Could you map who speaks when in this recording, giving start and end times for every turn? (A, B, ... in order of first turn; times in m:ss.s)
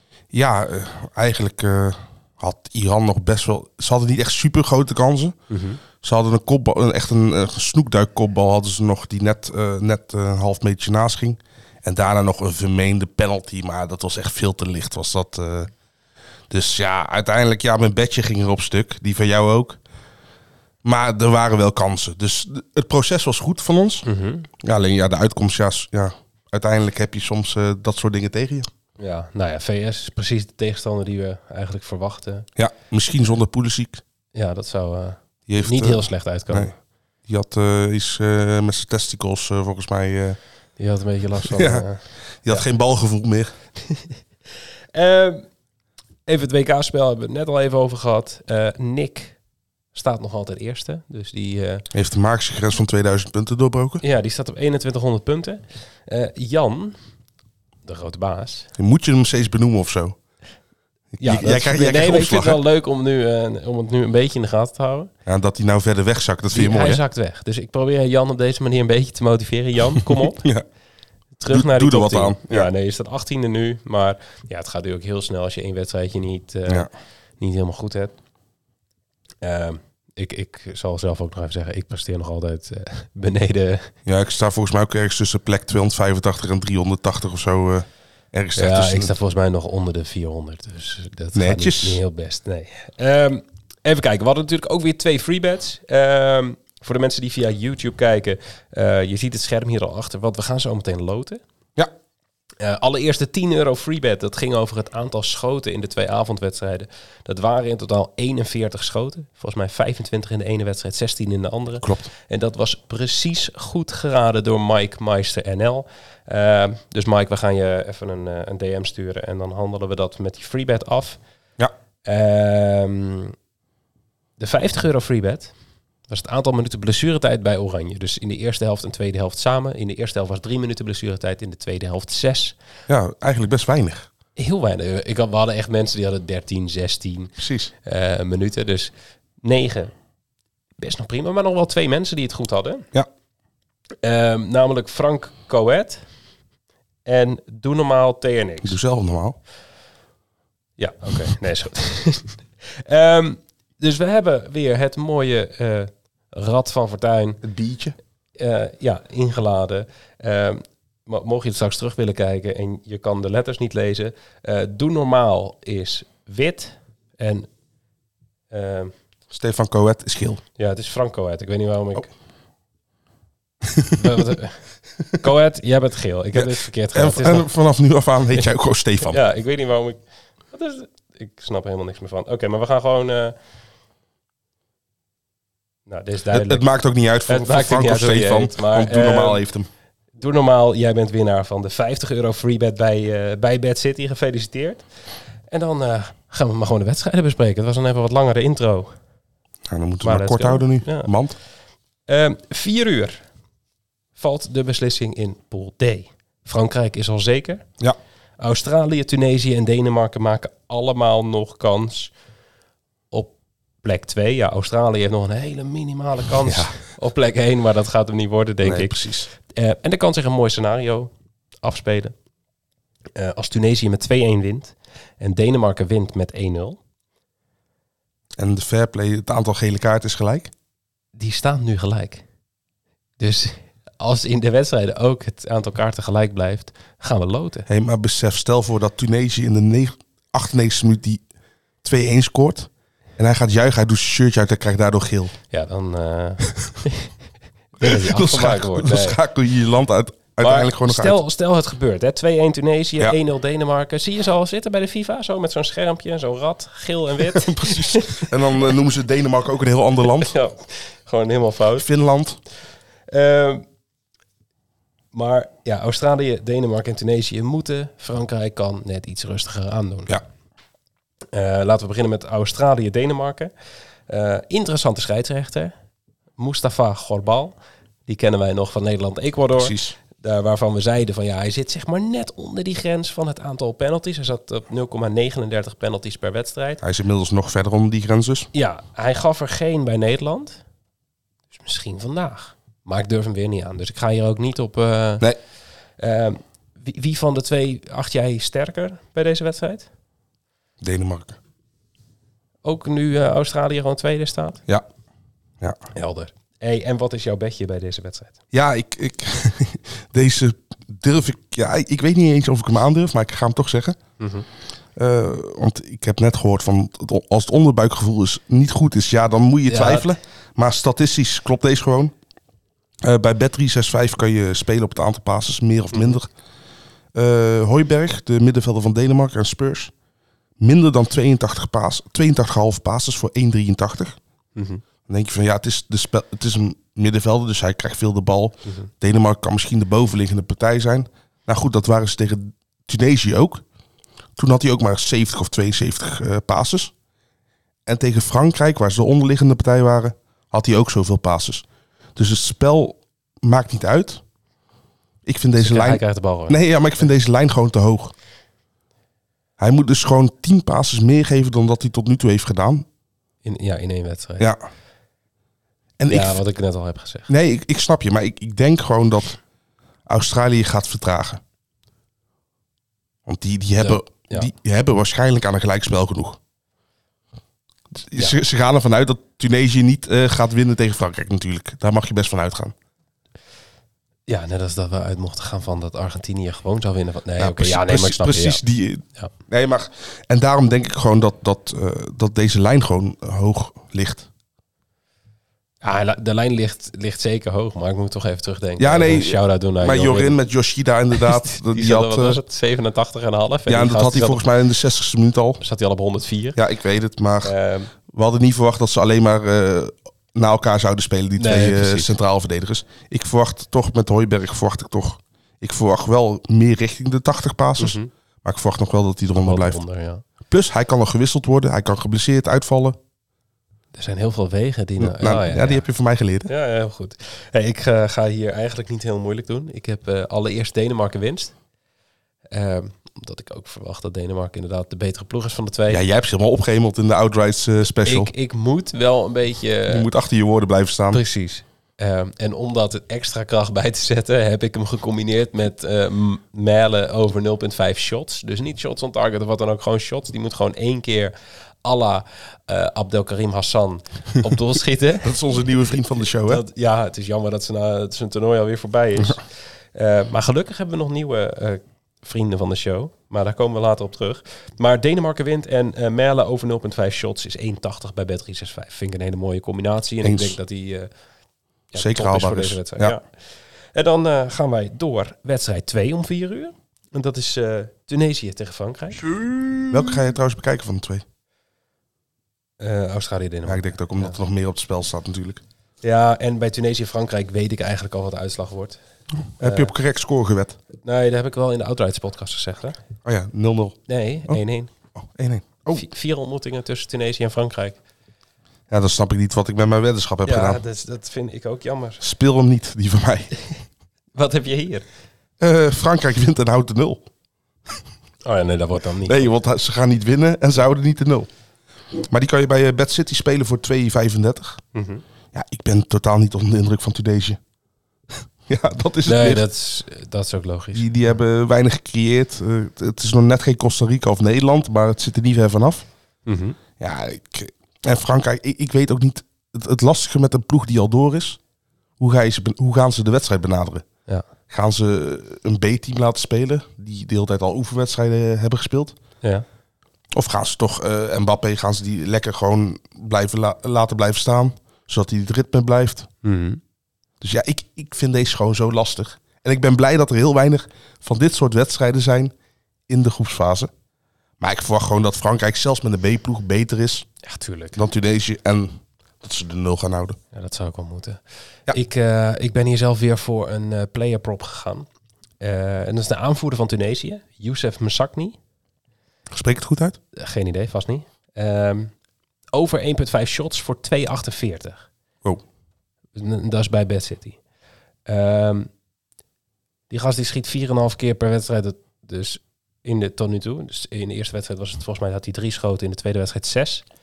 0:00.3-0:05.4 A
0:05.5-0:05.8 B
0:06.0-0:15.7 A
0:16.5-0:19.8 A
0:20.8-0:24.0 A
0:24.0-0:24.5 B
0:24.6-0:28.7 A
0:29.0-0:32.5 B
0:32.6-0:34.0 A
0:34.3-0:36.7 B
0:35.5-0:36.7 A
0:37.3-0:40.4 A
0:40.8-0:42.6 B
0:41.4-0:41.8 A
0:42.4-0:43.5 A
0:43.9-0:44.1 B
0:44.9-0:45.5 B
0:46.3-0:49.4 B
0:49.9-0:51.9 B
0:51.9-0:54.0 A
0:54.0-0:57.0 B
0:57.9-0:58.7 B
0:58.8-1:00.2 A
1:01.1-1:02.6 A
1:01.2-1:05.1 B
1:05.3-1:07.0 A
1:06.5-1:10.5 B
1:10.0-1:10.6 A
1:11.4-1:16.9 B
1:11.5-1:12.7 A
1:17.4-1:18.2 B
1:19.4-1:23.9 B
1:24.1-1:29.1 A
1:28.6-1:41.4 B
1:31.4-1:32.0 A
1:42.6-2:01.2 B
1:51.8-1:52.1 A
2:02.1-2:03.4 B
2:04.4-2:05.5 B
2:06.1-2:12.6 B
2:12.9-2:14.1 A
2:14.4-2:17.3 B
2:17.4-2:17.7 A
2:17.8-2:19.9 B
2:20.8-2:22.9 B
2:24.0-2:26.0 B
2:27.1-2:28.8 B
2:28.6-2:29.4 A
2:30.8-2:37.4 B
2:37.4-2:38.0 A
2:38.4-2:47.5 B
2:48.5-2:48.9 B
2:49.3-2:50.4 A
2:50.6-2:52.1 B
2:53.7-2:54.1 A
2:53.9-2:54.6 B
2:55.2-2:57.5 B
2:56.3-2:59.2 A
2:59.1-3:03.4 B
3:05.9-3:06.7 B
3:06.3-3:09.7 A
3:07.3-3:09.4 B
3:10.2-3:14.9 B
3:15.5-3:18.9 B
3:19.7-3:21.4 A
3:20.0-3:21.1 B
3:22.1-3:23.2 B
3:24.2-3:27.7 B
3:28.4-3:32.1 B
3:33.1-3:41.1 B
3:36.4-3:36.8 A
3:38.6-3:39.3 A
3:41.6-3:42.2 B
3:43.2-3:46.8 B
3:48.4-3:50.5 A
3:51.2-3:52.2 B
3:53.2-3:57.7 B
3:57.7-4:01.2 A
4:01.8-4:05.3 A
4:05.5-4:07.1 B
4:07.8-4:09.2 B
4:07.8-4:11.2 A
4:10.4-4:18.3 B
4:17.3-4:20.3 A
4:20.2-4:21.9 B
4:21.8-4:22.4 A
4:23.1-4:23.6 B
4:25.1-4:30.2 B
4:31.3-4:33.5 B
4:34.1-4:35.7 B
4:36.4-4:37.5 B
4:38.1-4:46.8 B
4:39.6-4:40.0 A
4:46.8-4:48.5 A
4:48.5-4:50.6 B
4:51.5-4:55.3 B
4:56.0-4:59.9 B
5:00.8-5:01.4 A
5:02.6-5:04.6 B
5:05.9-5:08.4 B
5:08.5-5:14.0 A
5:14.2-5:14.5 B
5:15.0-5:22.1 A
5:19.7-5:20.2 B
5:23.0-5:26.3 A
5:25.9-5:26.2 B
5:27.1-5:29.9 A
5:30.6-5:34.2 A
5:34.6-5:34.8 B
5:35.1-5:43.6 A
5:44.4-5:46.9 A
5:47.9-5:51.6 A
5:52.2-5:54.2 A
5:55.2-5:58.1 A
5:55.6-5:57.1 B
5:59.6-6:02.9 A
6:03.4-6:04.5 B
6:06.0-6:06.4 A
6:06.1-6:07.3 B
6:07.3-6:09.4 A
6:10.1-6:11.4 A
6:13.3-6:16.4 A
6:13.8-6:14.5 B
6:18.0-6:22.8 A
6:24.3-6:28.6 B
6:27.4-6:34.3 A
6:35.8-6:40.4 B
6:38.8-6:42.4 A
6:41.1-6:44.4 B
6:43.7-6:45.6 A
6:45.6-6:46.6 B
6:46.6-6:47.5 A
6:47.4-6:47.9 B
6:48.1-6:59.8 A
6:51.4-6:52.2 B
6:57.8-6:58.1 B
6:59.4-7:00.2 B
7:00.5-7:03.0 A
7:04.0-7:05.8 B
7:05.0-7:06.5 A
7:06.5-7:11.6 B
7:12.5-7:16.0 B
7:15.9-7:18.3 A
7:18.0-7:20.1 B
7:19.9-7:21.2 A
7:21.1-7:35.4 B
7:35.2-7:36.6 A
7:36.4-7:51.1 B
7:50.2-7:50.6 A
7:51.9-7:53.2 B
7:52.0-7:53.2 A
7:53.9-7:59.4 B
7:59.9-8:01.2 A
8:02.8-8:04.4 B
8:03.7-8:05.6 A
8:06.0-8:09.0 B
8:09.6-8:10.8 A
8:09.6-8:09.9 B
8:11.0-8:13.0 B
8:13.2-8:14.6 A
8:14.1-8:14.9 B
8:15.2-8:16.1 A
8:15.9-8:18.0 B
8:18.9-8:20.8 A
8:20.4-8:22.2 B
8:22.2-8:23.5 A
8:24.4-8:25.0 B
8:25.6-8:27.2 A
8:28.4-8:29.5 B
8:29.2-8:31.5 A
8:32.1-8:34.8 A
8:34.9-8:35.2 B
8:35.5-8:37.6 A
8:38.7-8:39.7 A
8:39.2-8:41.1 B
8:40.9-8:46.0 A
8:46.5-8:46.8 B
8:47.0-8:51.6 A
8:52.2-8:54.0 A
8:54.7-8:59.2 A
9:00.3-9:06.3 A
9:06.4-9:06.8 B
9:07.4-9:12.5 A
9:13.1-9:13.9 A
9:14.6-9:17.3 A
9:17.4-9:18.0 B
9:18.0-9:20.4 A
9:20.5-9:25.1 B
9:25.6-9:28.6 B
9:29.5-9:30.2 A
9:30.3-9:32.1 B
9:32.7-9:35.1 B
9:36.4-9:37.6 B
9:38.3-9:38.9 B
9:40.1-9:47.0 B